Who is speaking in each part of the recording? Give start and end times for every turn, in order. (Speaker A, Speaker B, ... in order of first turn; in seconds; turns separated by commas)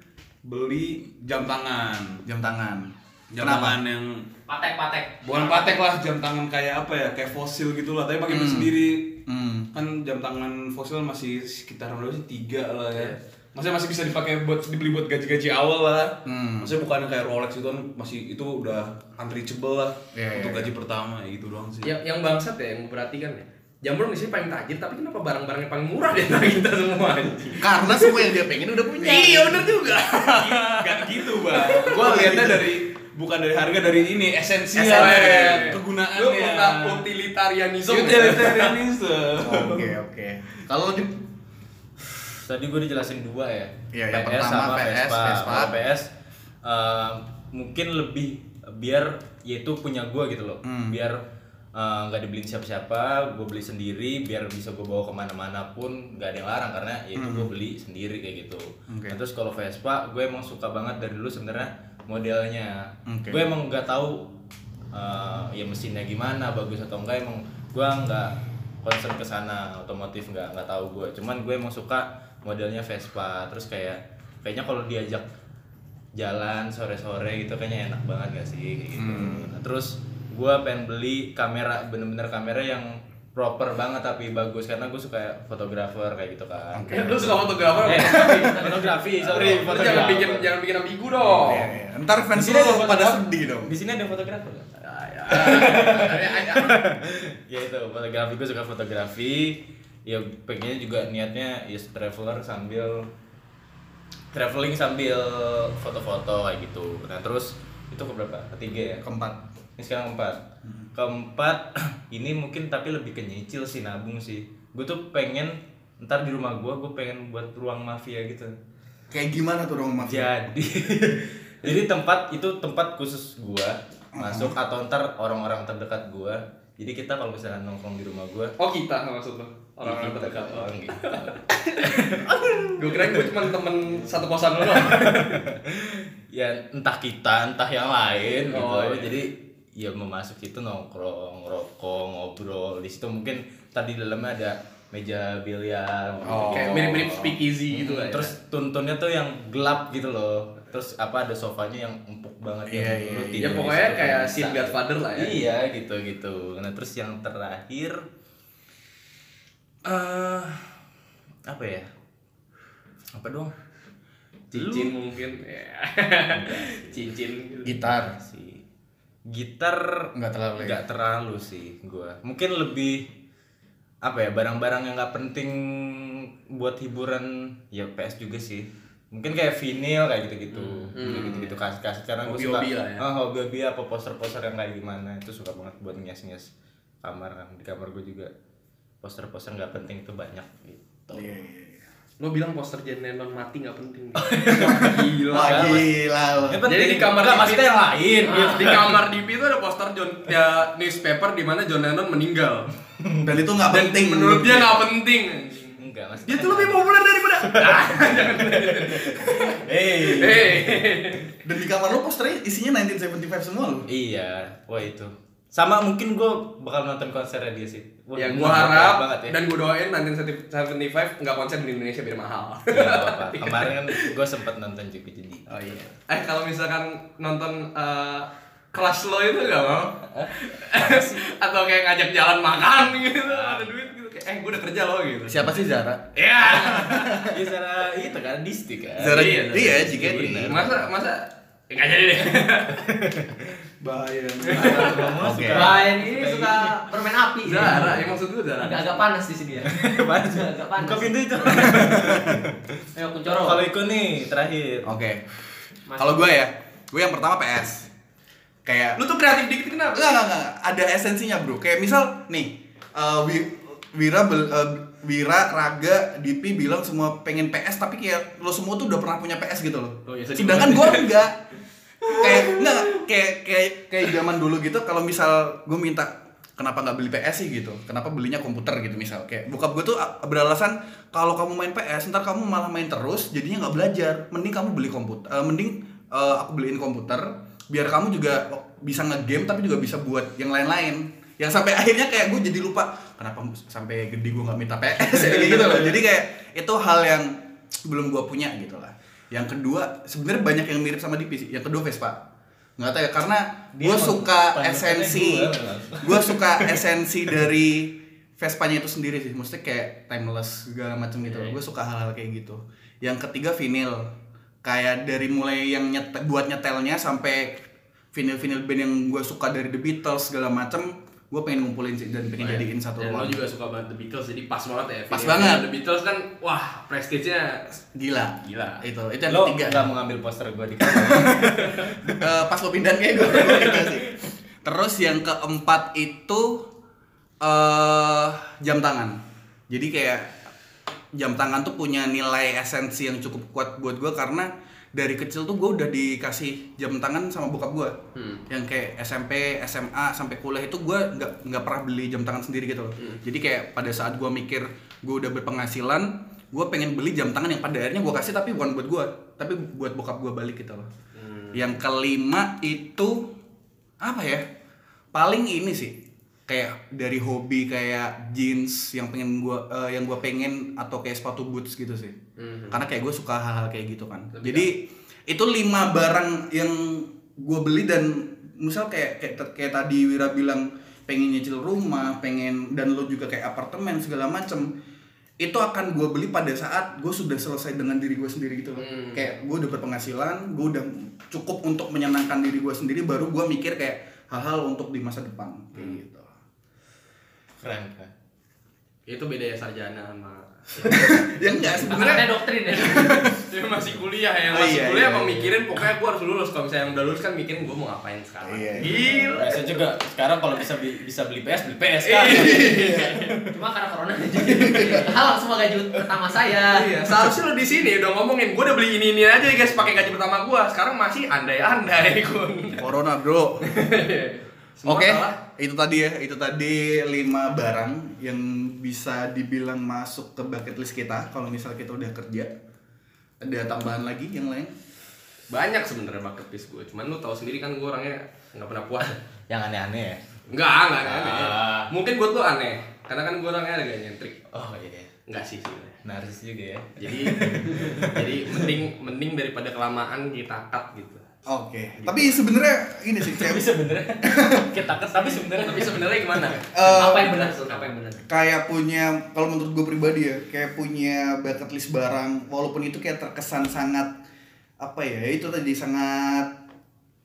Speaker A: 0.4-2.2, Speaker B: 2.2-3.8, Speaker A: 3.3-4.3, Speaker C: 4.5-5.8, Speaker A: 5.2-9.2, Speaker B: 8.3-9.7, Speaker A: 9.7-22.0, Speaker D: 12.9-13.2, Speaker B: 16.2-16.8, Speaker B: 20.1-20.7, Speaker D: 21.8-28.2, Speaker B: 27.6-29.7, Speaker D: 29.0-32.6, Speaker A: 30.2-37.1, Speaker B: 32.0-32.5, Speaker B: 34.8-35.5, Speaker D: 34.8-38.8, Speaker A: 37.9-39.9, Speaker B: 39.4-41.2, Speaker E: 42.4-46.1, Speaker B: 43.9-45.8, Speaker E: 46.6-51.2, Speaker B: 50.6-51.0, Speaker E: 51.8-64.3, Speaker B: 57.1-57.5, Speaker B: 58.9-59.2, Speaker B: 63.1-63.5, Speaker E: 64.9-75.2, Speaker E: 76.2-90.5, Speaker B: 79.0-79.5, Speaker B: 86.7-87.3, Speaker D: 86.9-91.7, Speaker C: 87.9-89.1, Speaker C: 89.8-90.1, Speaker E: 91.2-91.6, Speaker B: 91.4-93.8, Speaker E: 92.3-103.1, Speaker D: 94.9-96.8, Speaker E: 104.3-109.1, Speaker B: 109.0-109.4, Speaker E: 109.8-110.4, Speaker E: 111.0-118.5, Speaker B: 119.1-120.3, Speaker E: 120.1-128.5, Speaker B: 124.2-124.6, Speaker D: 128.6-135.4, Speaker E: 129.8-133.3, Speaker E: 134.7-158.1, Speaker D: 138.5-139.2, Speaker B: 146.2-146.9, Speaker D: 146.4-148.3, Speaker B: 152.7-153.6, Speaker D: 153.4-155.4, Speaker E: 159.8-160.7, Speaker E: 161.5-161.9, Speaker E: 163.1-163.5, Speaker D: 164.5-167.8, Speaker E: 164.5-164.9, Speaker E: 166.3-167.0, Speaker B: 167.6-168.2, Speaker E: 167.9-168.6, Speaker E: 169.3-173.1, Speaker B: 170.2-170.8, Speaker E: 174.0-186.5, Speaker D: 180.5-181.6, Speaker D: 182.2-183.1, Speaker E: 187.0-188.3, Speaker E: 189.0-191.3, Speaker B: 191.1-191.8, Speaker D: 192.2-195.9, Speaker E: 194.2-195.9, Speaker B: 194.5-196.6, Speaker E: 196.5-199.1, Speaker D: 196.7-202.7, Speaker C: 198.2-198.7, Speaker E: 203.0-203.3, Speaker B: 203.2-204.9, Speaker D: 203.7-211.4, Speaker E: 205.8-210.9, Speaker B: 211.4-213.9, Speaker E: 213.9-219.4, Speaker D: 218.2-224.2, Speaker E: 222.7-225.8, Speaker D: 225.5-235.6, Speaker E: 230.1-231.2, Speaker E: 233.1-233.7, Speaker B: 235.3-237.4, Speaker D: 236.2-237.3, Speaker E: 237.3-240.8, Speaker B: 239.0-240.7, Speaker D: 239.0-242.8, Speaker E: 242.7-243.6, Speaker A: 243.8-244.8, Speaker D: 244.5-245.1, Speaker E: 244.5-246.8, Speaker B: 245.1-245.8, Speaker C: 245.5-248.0, Speaker D: 247.4-249.0, Speaker E: 247.6-248.1, Speaker C: 248.6-251.7, Speaker E: 249.7-252.6, Speaker B: 251.5-252.4, Speaker C: 252.9-253.6, Speaker E: 253.3-254.9, Speaker B: 254.8-255.2, Speaker C: 255.9-256.2, Speaker B: 256.0-257.9, Speaker B: 258.6-259.0, Speaker D: 259.0-260.1, Speaker B: 259.9-271.4, Speaker D: 270.1-271.2, Speaker D: 272.0-273.0, Speaker B: 272.1-302.2, Speaker D: 295.4-295.7, Speaker B: 302.8-314.1, Speaker E: 303.8-306.8, Speaker B: 314.6-323.4, Speaker D: 322.4-327.7, Speaker B: 325.1-325.6, Speaker B: 327.9-329.9, Speaker D: 328.4-328.8, Speaker E: 329.3-332.2, Speaker B: 331.0-331.6, Speaker D: 331.6-331.9, Speaker B: 332.1-336.7, Speaker D: 333.4-333.9, Speaker B: 337.4-339.2, Speaker B: 339.7-340.4, Speaker B: 341.1-348.0, Speaker D: 348.1-348.4, Speaker B: 348.5-360.9, Speaker D: 361.2-361.8, Speaker B: 361.5-363.3, Speaker B: 364.0-364.4, Speaker B: 365.1-372.2, Speaker D: 372.4-372.8, Speaker B: 372.7-384.7, Speaker D: 374.3-374.7, Speaker B: 385.4-396.3, Speaker D: 388.8-389.3, Speaker E: 397.6-398.1, Speaker D: 399.1-409.6, Speaker B: 400.8-403.4, Speaker C: 401.7-403.2, Speaker B: 404.5-405.6, Speaker B: 408.4-409.4, Speaker E: 409.3-412.7, Speaker D: 412.0-413.4, Speaker B: 412.3-413.3, Speaker C: 413.4-417.1, Speaker B: 414.4-415.1, Speaker D: 416.7-422.9, Speaker B: 422.8-423.7, Speaker D: 423.6-425.4, Speaker B: 424.9-432.5, Speaker B: 433.4-434.8, Speaker D: 435.5-439.2, Speaker E: 439.5-440.2, Speaker D: 440.5-444.4, Speaker E: 441.0-441.9, Speaker E: 444.5-445.1, Speaker D: 445.3-446.0, Speaker E: 446.0-448.7, Speaker D: 447.0-451.2, Speaker B: 451.5-453.7, Speaker D: 452.0-452.4, Speaker E: 453.2-456.5, Speaker B: 454.2-454.8, Speaker D: 455.5-457.9, Speaker B: 456.7-457.4, Speaker C: 456.8-458.2, Speaker B: 458.3-464.2, Speaker B: 464.8-466.6